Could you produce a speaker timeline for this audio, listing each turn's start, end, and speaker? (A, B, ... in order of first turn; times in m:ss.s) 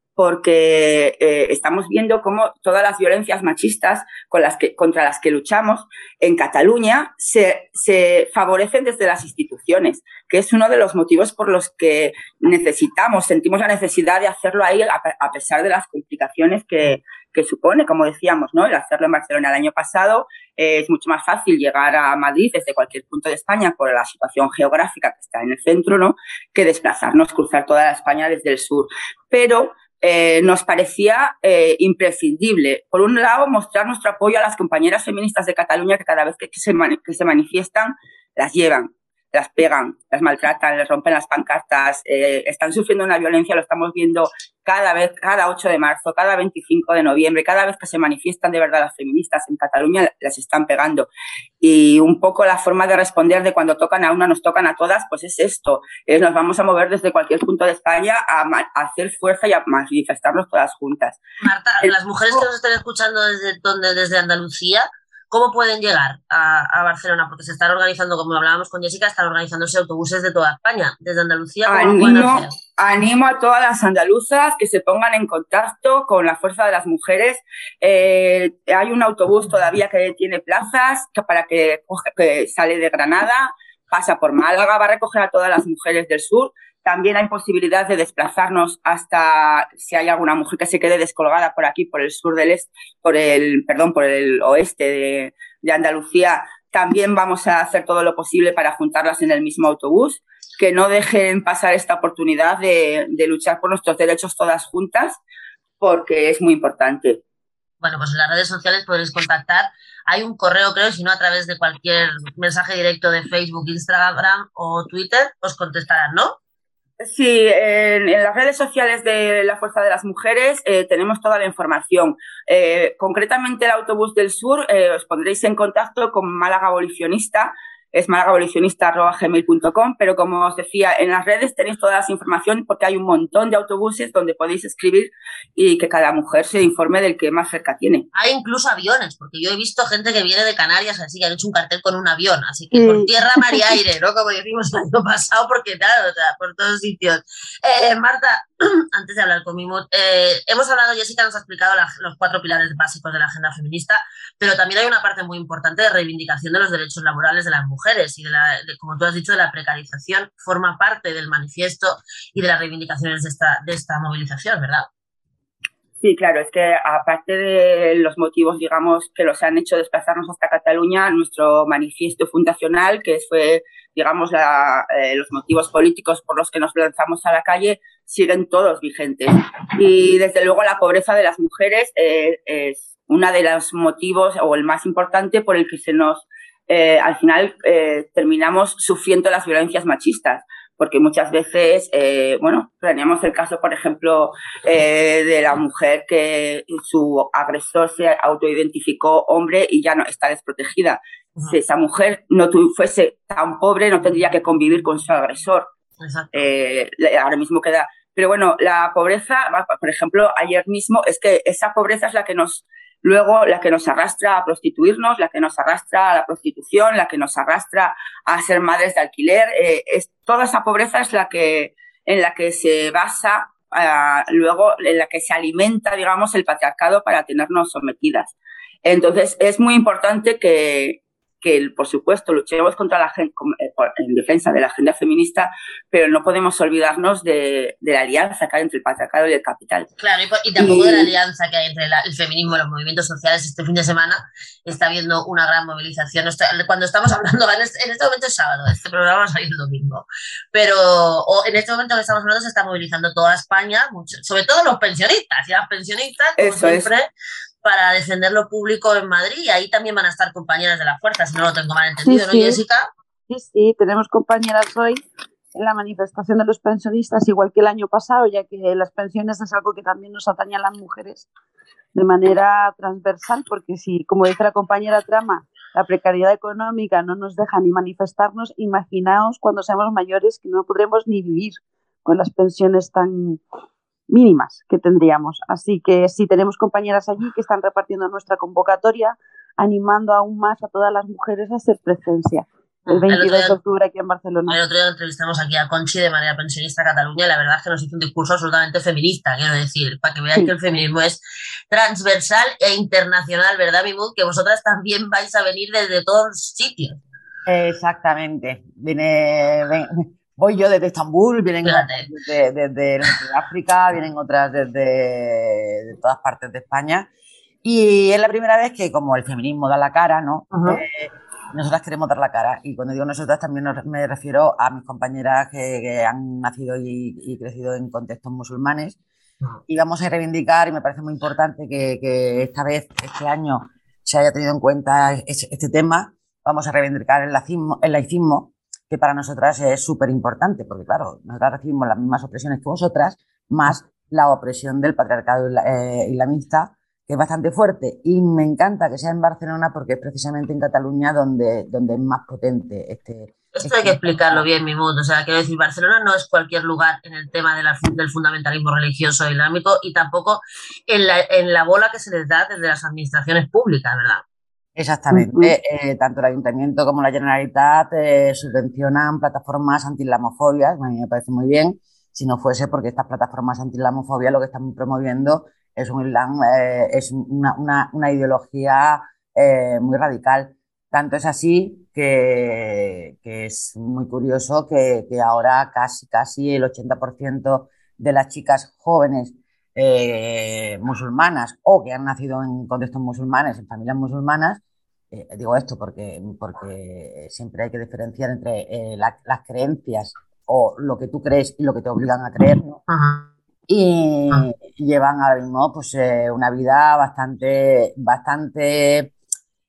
0:00.2-0:51.1 A
0:51.6-1:01.2 A
1:01.4-1:12.5 B
1:01.8-1:02.4 A
1:11.7-1:45.2 A
1:45.8-1:47.2 A
1:47.8-1:56.4 B
1:57.0-2:18.1 A
2:18.1-2:44.9 B
2:22.7-2:23.6 C
2:46.0-3:25.7 A
3:26.0-3:26.4 B
3:26.3-3:59.9 A
4:00.0-4:17.1 B
4:00.6-4:01.1 A
4:16.4-4:16.9 A
4:17.6-4:22.9 B
4:22.0-4:22.6 C
4:23.3-4:25.0 C
4:25.5-4:31.3 C
4:31.9-4:43.4 C
4:44.1-4:54.6 C
4:52.9-4:53.6 B
4:54.5-5:07.0 B
5:07.5-5:17.1 D
5:11.6-5:12.1 B
5:17.6-5:29.0 D
5:20.5-5:20.8 B
5:29.7-5:54.5 D
5:53.6-6:04.2 B
6:04.8-6:34.6 D
6:05.1-6:05.5 C
6:35.1-6:42.8 D
6:42.9-6:43.3 B
6:43.7-6:49.1 D